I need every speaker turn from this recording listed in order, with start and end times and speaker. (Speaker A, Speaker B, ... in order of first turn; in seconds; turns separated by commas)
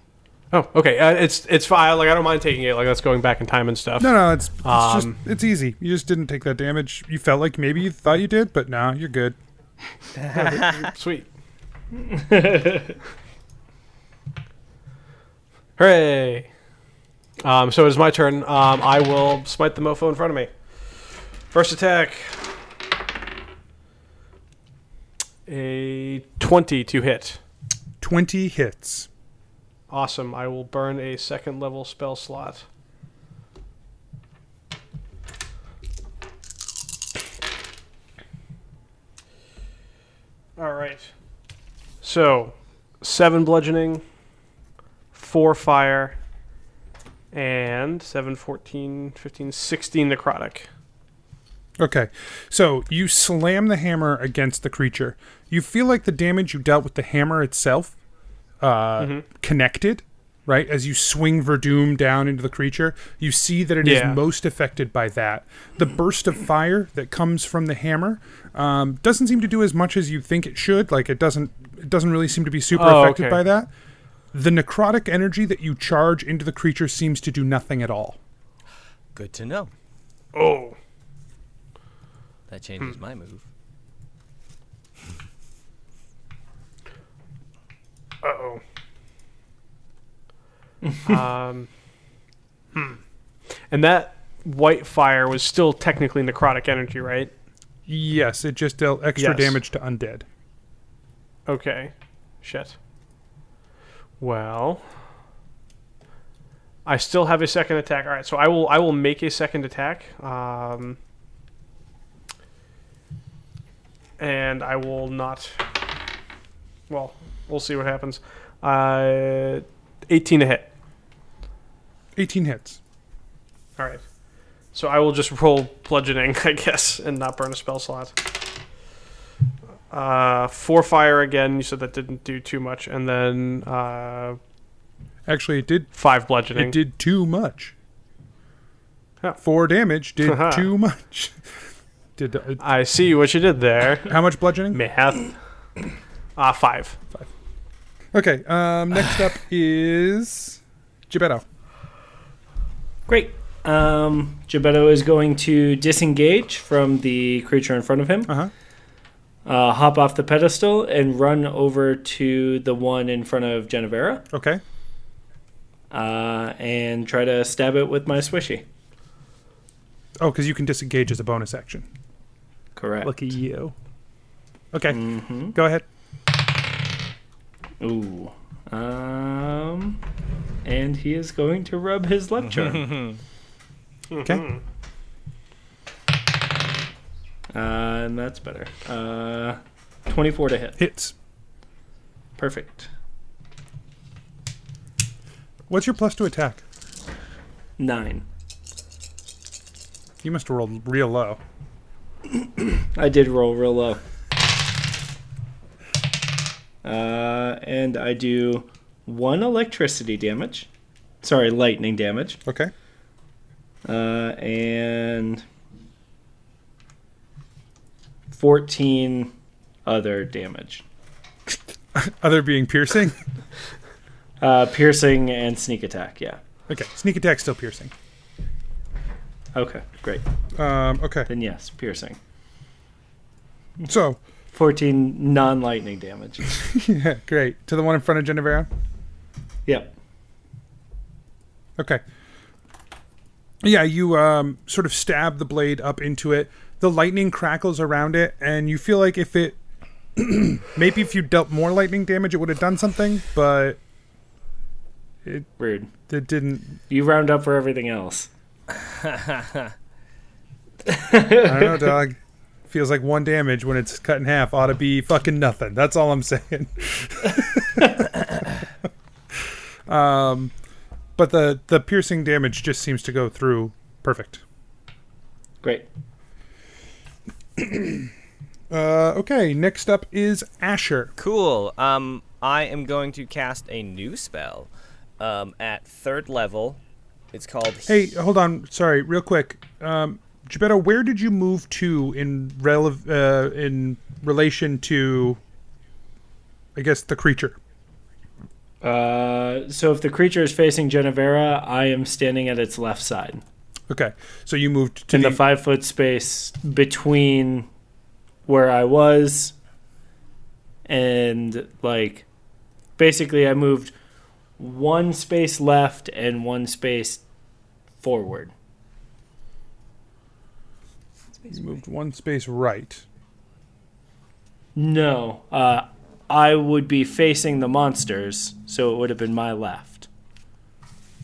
Speaker A: 0.5-5.2, Speaker B: 4.0-9.4, Speaker A: 10.3-11.3, Speaker C: 12.0-13.0, Speaker A: 15.8-16.5, Speaker A: 17.4-20.9, Speaker A: 21.5-22.4, Speaker A: 25.5-27.4, Speaker B: 28.0-29.1, Speaker A: 29.9-32.6, Speaker A: 40.6-41.1, Speaker A: 42.0-44.0, Speaker A: 45.1-46.2, Speaker A: 47.3-50.7, Speaker B: 51.8-58.0, Speaker B: 58.6-73.7, Speaker A: 59.0-59.2, Speaker A: 63.8-64.2, Speaker A: 72.7-73.4, Speaker B: 74.3-78.2, Speaker D: 79.2-79.7, Speaker A: 80.3-80.8, Speaker D: 82.5-83.4, Speaker A: 88.2-88.6, Speaker C: 90.8-91.2, Speaker A: 91.0-91.7, Speaker A: 92.8-93.0, Speaker A: 93.7-97.3, Speaker B: 97.9-100.2, Speaker A: 99.2-99.6, Speaker A: 101.5-102.8, Speaker A: 104.2-104.9, Speaker A: 106.8-111.0, Speaker A: 114.2-115.6, Speaker A: 116.9-120.7, Speaker B: 122.2-122.8, Speaker A: 123.8-124.0, Speaker A: 124.7-128.2, Speaker A: 129.9-134.4, Speaker B: 135.3-135.9, Speaker A: 135.9-136.8, Speaker B: 136.5-137.7, Speaker B: 139.4-141.4, Speaker A: 140.3-140.6, Speaker B: 142.2-142.6, Speaker A: 142.6-144.2, Speaker B: 144.1-144.8, Speaker A: 144.7-145.3, Speaker A: 146.4-147.0, Speaker B: 148.1-150.6, Speaker B: 151.1-151.4, Speaker C: 153.1-158.3, Speaker C: 159.4-164.3, Speaker B: 164.3-164.6, Speaker C: 165.9-168.7, Speaker B: 170.2-171.9, Speaker C: 172.8-173.2, Speaker B: 173.0-173.7, Speaker B: 174.7-175.8, Speaker C: 174.9-175.6, Speaker C: 177.8-180.0, Speaker C: 180.7-183.2, Speaker D: 182.7-183.2, Speaker B: 184.2-184.5, Speaker C: 187.5-190.8, Speaker B: 190.8-191.1, Speaker C: 192.4-192.9, Speaker B: 195.7-196.6, Speaker C: 197.8-198.2, Speaker B: 200.2-201.4, Speaker C: 202.3-204.0, Speaker C: 206.8-210.7, Speaker C: 211.2-212.4, Speaker B: 212.5-212.7, Speaker C: 213.8-215.4, Speaker C: 218.3-219.3, Speaker C: 219.9-220.8, Speaker B: 221.9-223.2, Speaker C: 224.4-226.4, Speaker B: 226.7-227.9, Speaker C: 229.5-230.2, Speaker B: 230.6-231.3, Speaker C: 231.3-232.2, Speaker B: 233.9-234.2, Speaker C: 234.5-236.7, Speaker B: 236.7-238.7, Speaker C: 239.7-239.9, Speaker B: 243.6-249.6, Speaker B: 250.2-253.8, Speaker C: 255.6-255.9, Speaker B: 256.1-256.8, Speaker C: 256.9-258.3, Speaker D: 258.9-259.6, Speaker C: 260.9-261.9, Speaker B: 261.4-262.2, Speaker B: 262.7-268.2, Speaker B: 269.9-270.5, Speaker B: 271.2-274.4, Speaker C: 275.6-275.9, Speaker B: 277.6-278.1, Speaker B: 278.7-281.1, Speaker D: 281.2-286.8, Speaker D: 287.3-288.0, Speaker B: 287.9-295.4, Speaker B: 296.8-297.6, Speaker C: 298.8-303.4, Speaker B: 303.9-305.4, Speaker C: 305.1-307.7, Speaker C: 308.5-309.6, Speaker C: 310.9-312.3, Speaker C: 313.0-313.9, Speaker C: 314.6-317.2, Speaker C: 318.0-318.5, Speaker B: 321.5-323.0, Speaker C: 324.8-330.1